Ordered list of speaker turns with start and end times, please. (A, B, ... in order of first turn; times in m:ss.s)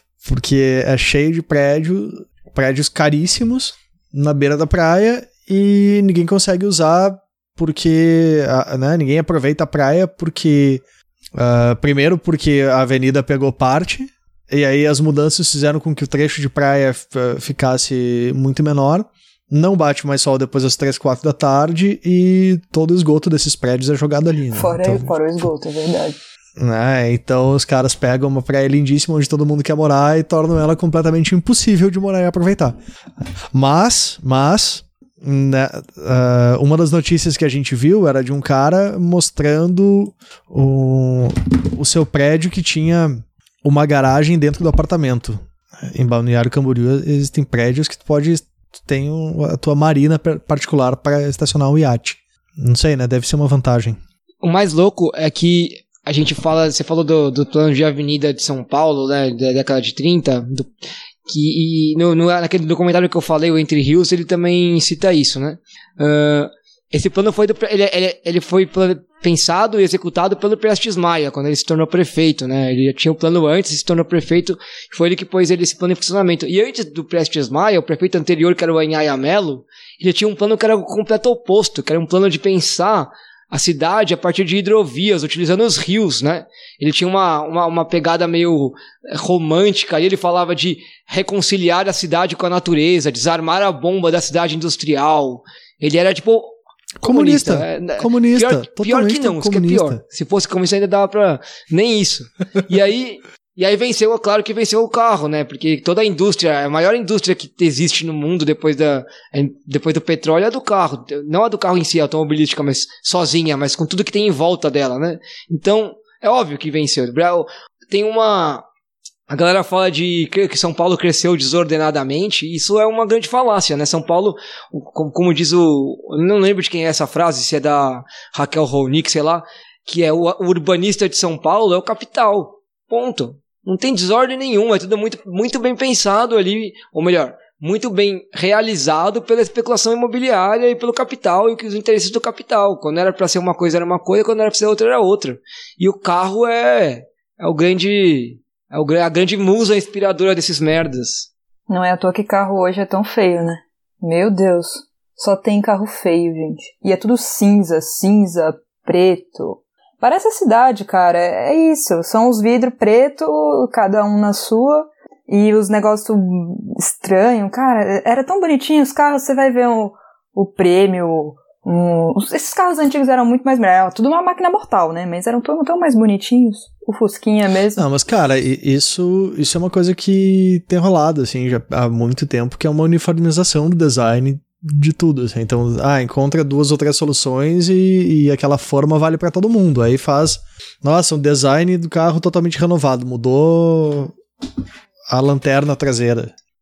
0:00.2-0:10.8 A
0:11.3-0:25.1 A
0:24.5-0:26.2 B
0:26.6-0:32.8 A
0:33.5-0:54.0 A
0:54.4-1:00.7 C
1:01.3-1:58.6 C
1:37.0-1:40.0 A
1:59.3-2:31.3 C
2:31.7-2:57.8 B
2:57.8-3:14.1 A
3:15.1-3:16.3 A